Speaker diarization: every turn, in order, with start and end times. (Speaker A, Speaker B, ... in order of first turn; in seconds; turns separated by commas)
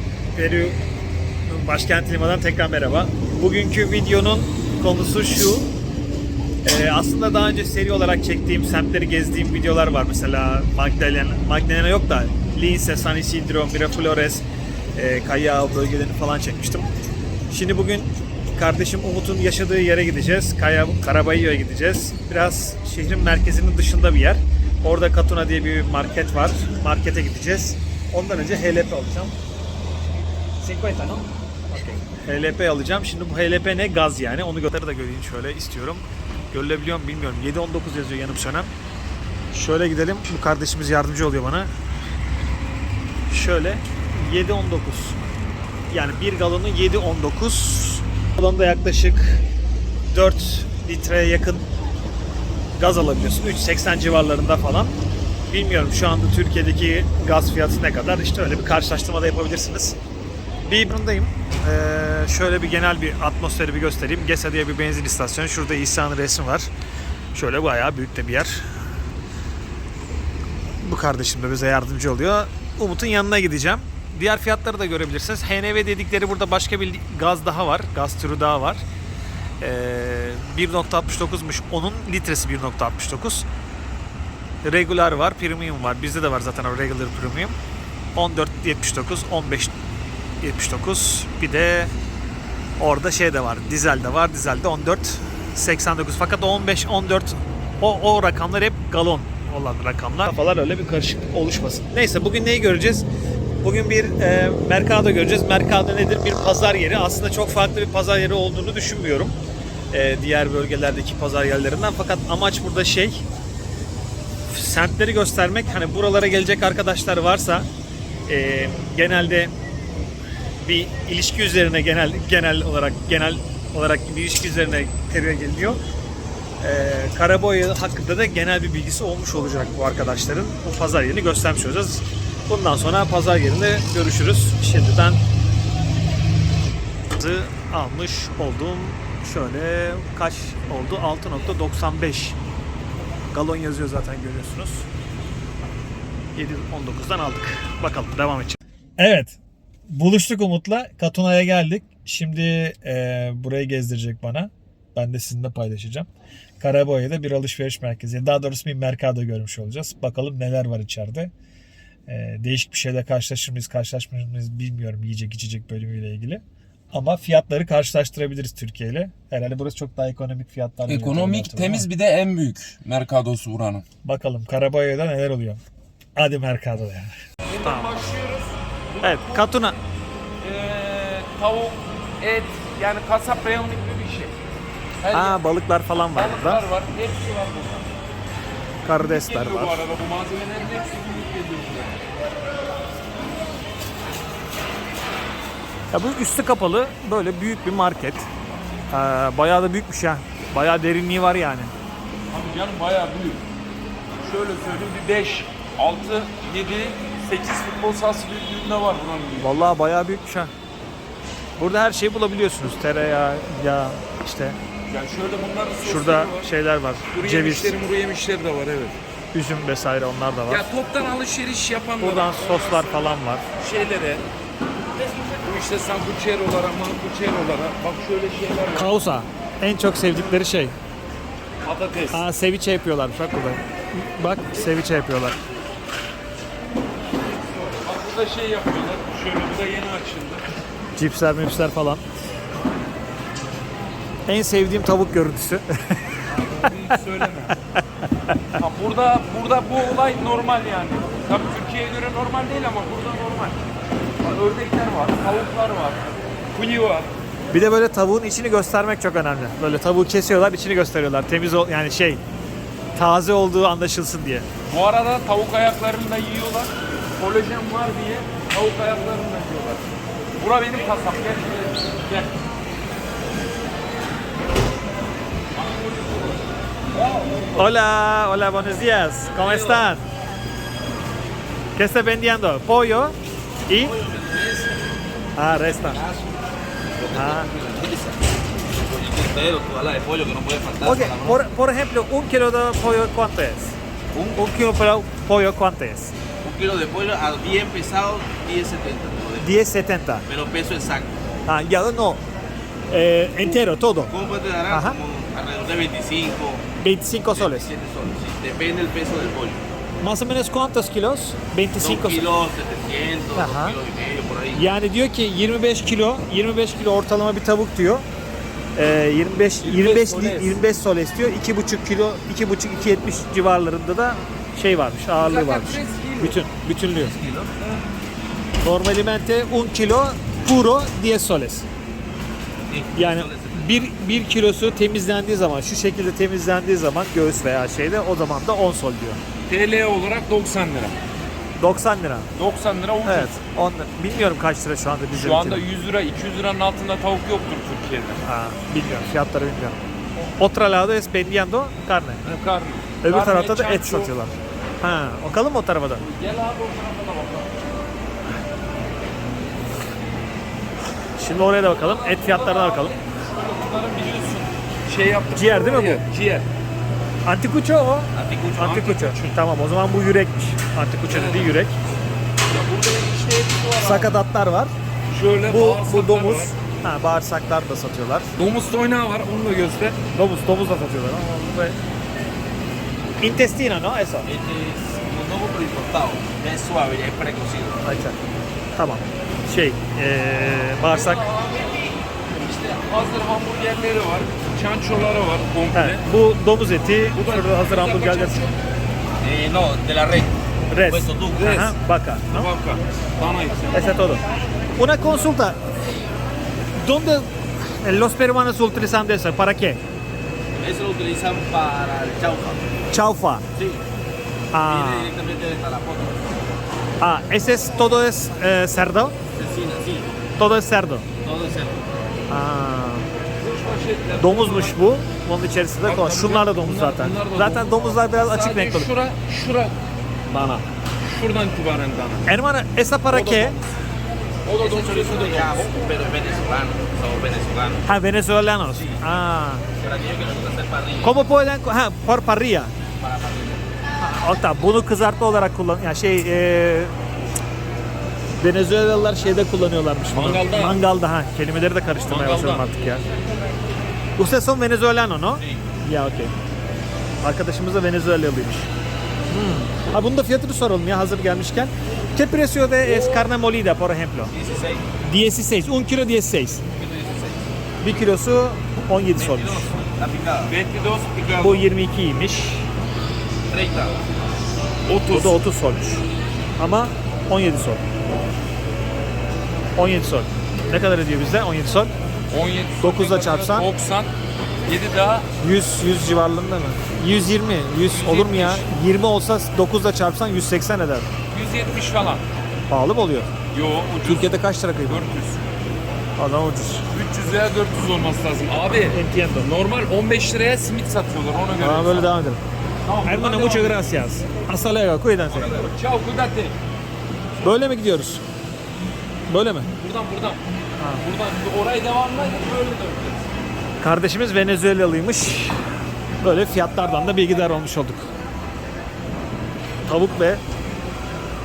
Speaker A: 0.3-0.8, Speaker A: 1.5-5.7, Speaker A: 6.6-14.4, Speaker A: 14.9-16.9, Speaker A: 17.5-29.4, Speaker A: 30.6-38.7, Speaker A: 39.5-41.7, Speaker A: 43.3-45.2, Speaker A: 45.9-49.4, Speaker A: 50.1-51.7, Speaker A: 52.8-55.0, Speaker A: 55.5-60.0, Speaker A: 60.7-66.7, Speaker A: 67.3-68.7, Speaker A: 70.8-78.8, Speaker A: 79.6-83.5, Speaker A: 84.6-87.6, Speaker A: 88.2-89.7, Speaker A: 90.4-91.9, Speaker A: 92.8-103.0, Speaker A: 103.6-109.3, Speaker A: 109.9-113.2, Speaker A: 114.5-117.7, Speaker A: 118.3-119.5, Speaker A: 120.6-125.8, Speaker A: 126.6-135.2, Speaker A: 137.1-142.4, Speaker A: 143.3-144.9, Speaker A: 146.4-149.4, Speaker A: 149.9-156.1, Speaker A: 156.6-161.3, Speaker A: 162.1-171.9, Speaker B: 170.9-173.8, Speaker A: 174.0-175.6, Speaker A: 176.2-177.1, Speaker B: 177.5-179.6, Speaker A: 177.6-178.0, Speaker A: 179.0-179.8, Speaker B: 180.4-184.3, Speaker B: 185.0-185.5, Speaker A: 185.1-186.6, Speaker B: 186.1-187.9, Speaker A: 188.8-189.8, Speaker B: 189.0-192.0, Speaker A: 195.9-198.3, Speaker A: 198.9-201.7, Speaker B: 202.3-203.4, Speaker B: 204.2-209.6, Speaker A: 209.4-210.5, Speaker A: 211.6-214.6, Speaker B: 214.9-216.5, Speaker A: 215.8-217.7, Speaker B: 217.1-219.0, Speaker A: 219.3-220.7, Speaker B: 220.5-224.3, Speaker A: 222.0-223.4, Speaker B: 225.0-228.9, Speaker A: 228.7-230.8, Speaker B: 231.6-232.2, Speaker A: 232.1-235.4, Speaker B: 237.4-240.4, Speaker A: 241.0-242.0, Speaker A: 244.3-246.1, Speaker B: 246.3-247.6, Speaker B: 248.6-253.6, Speaker B: 254.2-257.1, Speaker A: 257.5-262.2, Speaker A: 262.9-264.5, Speaker B: 264.7-272.4, Speaker B: 275.6-276.4, Speaker C: 276.9-277.7, Speaker A: 277.6-280.1, Speaker C: 279.3-279.9, Speaker A: 281.8-283.2, Speaker A: 283.7-283.9, Speaker C: 283.7-284.9, Speaker A: 285.4-286.0, Speaker C: 285.6-286.4, Speaker C: 286.9-291.5, Speaker A: 287.1-287.5, Speaker A: 290.8-293.8, Speaker C: 294.1-294.5, Speaker A: 294.4-296.1, Speaker C: 296.4-299.6, Speaker A: 299.4-300.3, Speaker C: 300.3-301.2, Speaker A: 301.5-302.2, Speaker A: 302.9-304.1, Speaker C: 304.1-306.7, Speaker A: 304.7-305.0, Speaker A: 306.8-307.7, Speaker C: 307.3-309.6, Speaker A: 310.0-312.2, Speaker C: 311.8-314.7, Speaker A: 313.4-313.8, Speaker A: 314.6-318.1, Speaker A: 318.8-327.1, Speaker B: 319.6-320.6, Speaker B: 325.2-326.4, Speaker C: 326.9-327.6, Speaker A: 328.6-331.7, Speaker C: 332.7-333.7, Speaker A: 332.9-339.2, Speaker B: 339.5-341.0, Speaker A: 341.6-342.3, Speaker B: 342.4-343.3, Speaker A: 343.0-345.6, Speaker B: 345.1-348.2, Speaker A: 348.2-349.8, Speaker A: 350.4-352.2, Speaker B: 352.2-354.1, Speaker A: 353.0-356.0, Speaker B: 356.0-357.7, Speaker A: 361.2-363.0, Speaker B: 361.6-366.5, Speaker A: 365.3-366.0, Speaker A: 367.3-371.8, Speaker C: 368.1-368.9, Speaker B: 368.6-369.4, Speaker B: 371.1-371.6, Speaker B: 372.5-374.2, Speaker A: 373.8-374.7, Speaker B: 375.1-376.5, Speaker A: 375.5-378.4, Speaker B: 378.4-380.0, Speaker A: 380.1-381.8, Speaker A: 383.2-384.3, Speaker C: 384.2-387.8, Speaker A: 387.8-388.2, Speaker A: 388.8-391.2, Speaker B: 390.8-391.9, Speaker C: 392.5-392.7, Speaker B: 392.6-396.1, Speaker A: 395.7-398.4, Speaker B: 397.1-398.6, Speaker C: 399.2-401.6, Speaker A: 400.7-402.5, Speaker B: 401.4-401.8, Speaker B: 402.3-404.0, Speaker A: 403.7-404.2, Speaker A: 404.8-405.6, Speaker A: 406.8-409.8, Speaker C: 410.6-412.7, Speaker A: 412.9-413.4, Speaker C: 413.6-413.8, Speaker A: 414.5-415.1, Speaker C: 414.6-416.3, Speaker A: 417.0-419.2, Speaker C: 419.3-420.1, Speaker A: 420.4-421.1, Speaker C: 421.2-421.9, Speaker A: 422.3-423.1, Speaker B: 423.4-424.8, Speaker A: 424.2-428.9, Speaker B: 425.8-429.8, Speaker A: 430.3-430.7, Speaker B: 431.0-432.3, Speaker A: 432.3-433.6, Speaker B: 433.1-433.6, Speaker B: 434.4-435.8, Speaker C: 434.6-437.9, Speaker A: 437.9-439.7, Speaker C: 438.7-439.0, Speaker C: 439.8-441.2, Speaker A: 441.0-442.7, Speaker C: 443.0-443.7, Speaker A: 444.1-446.9, Speaker A: 448.4-453.0, Speaker B: 450.1-450.8, Speaker B: 452.1-452.7, Speaker A: 454.2-456.3, Speaker C: 455.4-455.6, Speaker A: 457.2-458.7, Speaker A: 459.3-464.3, Speaker B: 462.8-463.3, Speaker C: 464.3-464.9, Speaker A: 465.0-466.6, Speaker C: 466.7-468.1, Speaker A: 467.8-469.7, Speaker C: 469.1-470.6, Speaker B: 470.5-471.6, Speaker A: 471.4-472.7, Speaker C: 473.5-474.0, Speaker B: 474.9-475.4, Speaker A: 475.1-476.0, Speaker A: 476.6-477.9, Speaker A: 479.8-481.9, Speaker B: 482.3-484.1, Speaker A: 482.8-483.7, Speaker B: 484.7-485.3, Speaker A: 485.4-491.1, Speaker B: 487.9-488.7, Speaker B: 491.3-492.3, Speaker A: 492.7-493.3, Speaker B: 493.5-495.5, Speaker A: 494.0-495.0, Speaker A: 496.2-496.9, Speaker B: 496.9-502.1, Speaker A: 498.9-499.5, Speaker A: 501.6-502.4, Speaker B: 502.9-504.0, Speaker A: 503.1-505.6, Speaker B: 505.3-506.6, Speaker A: 507.4-508.2, Speaker A: 509.3-509.7, Speaker B: 509.8-510.4, Speaker A: 510.8-511.0, Speaker B: 511.0-513.3, Speaker A: 513.8-515.6, Speaker A: 516.2-518.1, Speaker A: 519.9-520.4